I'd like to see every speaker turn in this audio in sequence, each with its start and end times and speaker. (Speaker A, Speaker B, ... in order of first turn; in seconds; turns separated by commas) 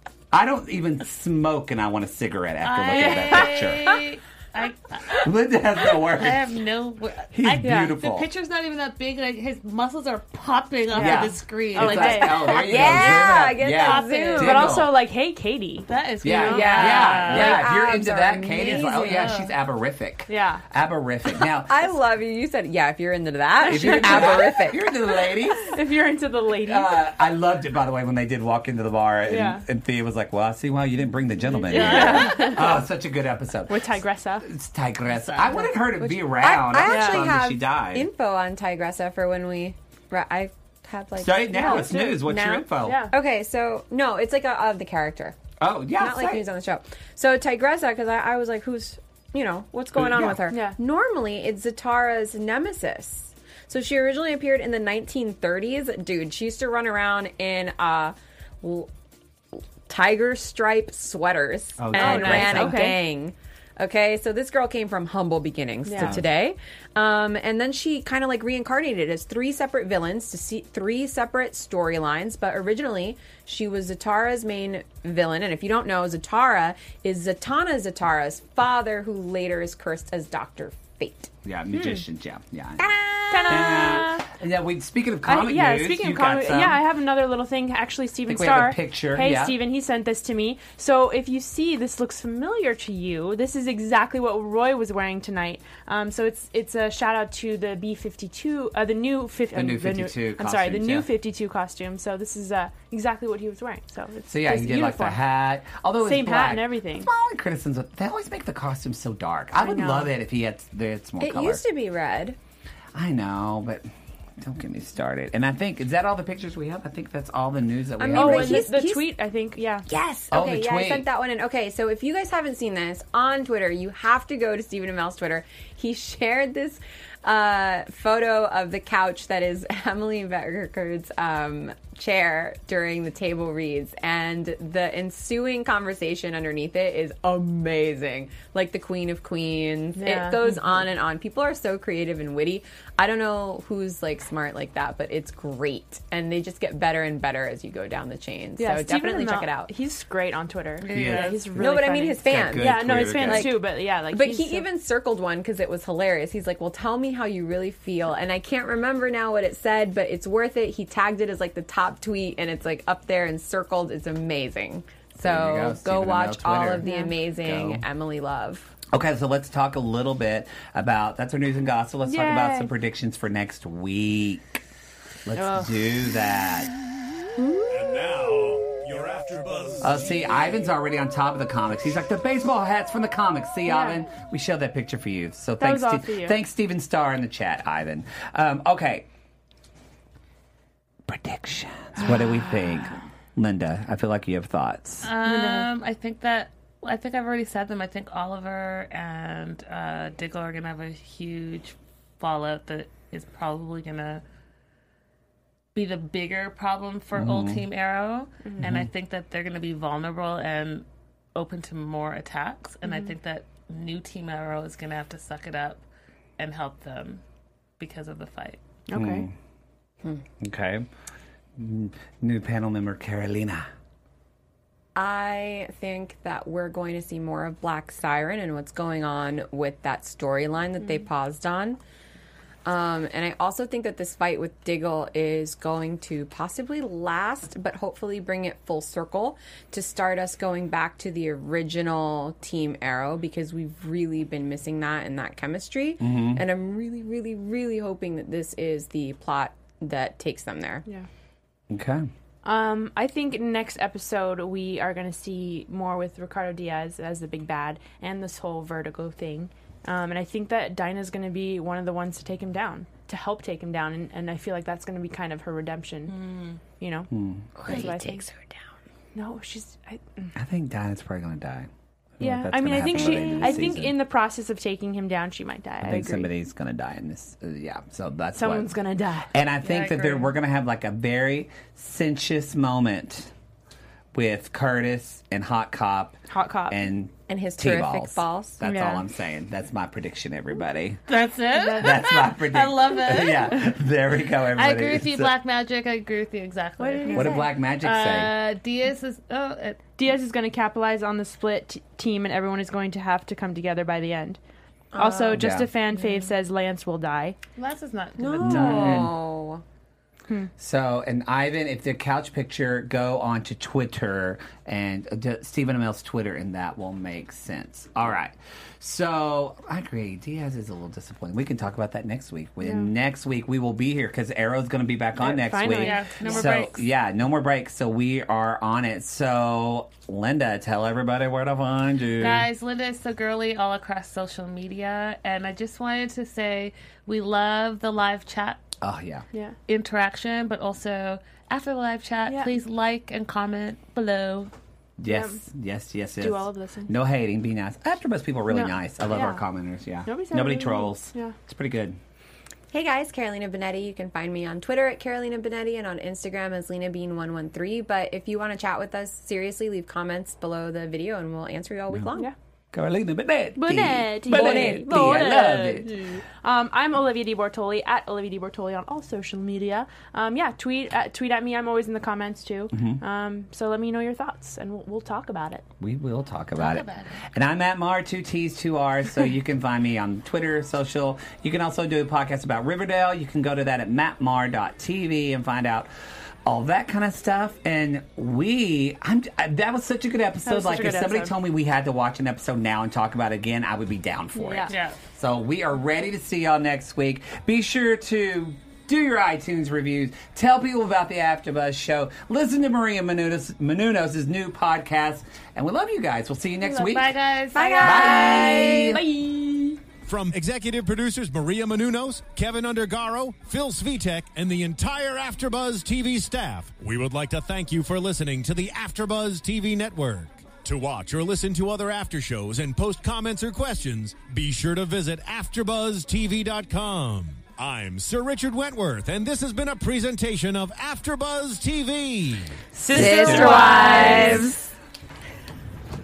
Speaker A: 0.3-4.0, Speaker B: 2.6-5.3, Speaker A: 5.1-6.5, Speaker B: 5.9-14.7, Speaker A: 7.3-8.3, Speaker C: 7.6-8.0, Speaker C: 10.9-12.6, Speaker A: 10.9-14.9, Speaker D: 12.1-14.7, Speaker C: 14.4-17.2, Speaker B: 15.9-17.7, Speaker A: 16.2-21.7, Speaker D: 16.6-19.4, Speaker B: 18.5-19.5, Speaker C: 20.3-20.6, Speaker D: 21.7-24.9, Speaker C: 23.6-24.4, Speaker A: 23.6-25.8, Speaker C: 25.7-26.9, Speaker A: 26.6-33.9, Speaker C: 29.3-29.6, Speaker C: 31.5-32.8, Speaker B: 31.7-32.6, Speaker C: 33.7-34.5, Speaker A: 34.4-38.1, Speaker B: 35.1-35.7, Speaker D: 36.1-45.4, Speaker C: 36.9-37.3, Speaker A: 41.2-43.1, Speaker C: 41.5-42.3, Speaker C: 42.8-43.1, Speaker A: 45.6-46.5, Speaker D: 46.0-58.9, Speaker A: 50.0-50.4, Speaker C: 50.5-50.8, Speaker D: 59.9-81.3, Speaker A: 61.8-62.9, Speaker C: 61.9-63.0, Speaker C: 65.8-66.2, Speaker A: 66.0-66.3, Speaker A: 81.4-82.9, Speaker C: 81.7-82.0, Speaker D: 82.8-84.0, Speaker C: 83.3-84.3, Speaker A: 83.5-86.8, Speaker C: 85.3-105.2, Speaker A: 88.3-89.6, Speaker A: 99.5-101.1, Speaker A: 104.3-111.6, Speaker C: 106.0-107.1, Speaker C: 109.6-110.1, Speaker D: 111.2-112.4, Speaker A: 113.0-113.8, Speaker A: 114.4-118.8, Speaker C: 118.0-119.9, Speaker D: 118.0-119.1, Speaker D: 119.9-149.7, Speaker A: 120.3-121.1, Speaker C: 139.9-140.6, Speaker C: 148.6-154.7, Speaker B: 150.8-151.5, Speaker A: 150.9-151.3, Speaker D: 151.6-168.7, Speaker A: 152.2-153.6, Speaker A: 165.2-167.8, Speaker C: 166.8-167.1, Speaker A: 168.9-174.6, Speaker C: 172.1-172.7, Speaker A: 175.3-176.7, Speaker C: 175.3-175.7, Speaker D: 177.4-177.7, Speaker E: 177.7-180.2, Speaker A: 179.8-189.1, Speaker C: 183.7-184.0, Speaker C: 185.6-186.4, Speaker A: 191.1-195.1, Speaker B: 195.0-204.2, Speaker C: 195.2-195.7, Speaker B: 205.8-215.8, Speaker A: 207.1-207.6, Speaker C: 208.4-208.7, Speaker A: 208.6-208.9, Speaker C: 212.8-213.1, Speaker B: 216.4-217.2, Speaker B: 217.8-218.6, Speaker C: 218.9-219.3, Speaker A: 218.9-219.3, Speaker A: 220.4-220.9, Speaker A: 221.6-223.7, Speaker D: 224.9-231.8, Speaker D: 232.7-250.8, Speaker A: 246.0-246.4, Speaker A: 251.7-252.1, Speaker C: 252.4-266.1, Speaker B: 266.1-266.6, Speaker C: 266.8-267.1, Speaker A: 267.1-267.8, Speaker D: 267.6-268.6, Speaker C: 267.7-268.2, Speaker C: 269.1-270.3, Speaker A: 270.4-274.0, Speaker C: 272.2-276.3, Speaker D: 272.8-273.7, Speaker A: 275.8-278.8, Speaker C: 278.3-279.3, Speaker A: 279.3-283.3, Speaker B: 279.6-280.3, Speaker A: 284.1-291.0, Speaker C: 286.3-286.9, Speaker D: 287.3-288.6, Speaker C: 288.6-289.0, Speaker B: 291.1-293.7, Speaker C: 291.5-292.1, Speaker A: 291.7-295.3, Speaker B: 294.6-299.8, Speaker C: 296.8-297.5, Speaker A: 297.1-298.5, Speaker C: 300.0-304.4, Speaker D: 304.9-306.3, Speaker C: 305.0-307.4, Speaker A: 305.3-305.7, Speaker B: 307.6-309.1, Speaker D: 308.2-309.6, Speaker A: 308.4-309.1, Speaker A: 310.6-332.5, Speaker C: 325.2-326.6, Speaker B: 325.8-326.8, Speaker B: 332.2-338.6, Speaker A: 338.8-339.2, Speaker B: 339.7-344.5, Speaker C: 342.3-342.5, Speaker A: 345.0-352.0, Speaker C: 345.1-345.4, Speaker C: 346.2-346.9, Speaker C: 348.5-349.4, Speaker C: 350.1-351.4, Speaker D: 352.7-362.3, Speaker A: 362.7-366.2, Speaker C: 363.6-375.6, Speaker D: 364.3-365.3, Speaker A: 372.7-373.0, Speaker A: 375.8-385.9, Speaker B: 376.6-377.2, Speaker A: 386.4-407.2, Speaker C: 390.5-391.3, Speaker C: 394.4-394.7, Speaker B: 394.7-395.0, Speaker C: 406.6-406.9, Speaker B: 406.8-408.5, Speaker D: 407.5-409.0, Speaker C: 407.6-409.8, Speaker A: 407.8-409.0, Speaker E: 410.1-432.6, Speaker A: 432.8-434.6, Speaker C: 432.8-434.5, Speaker D: 432.9-434.7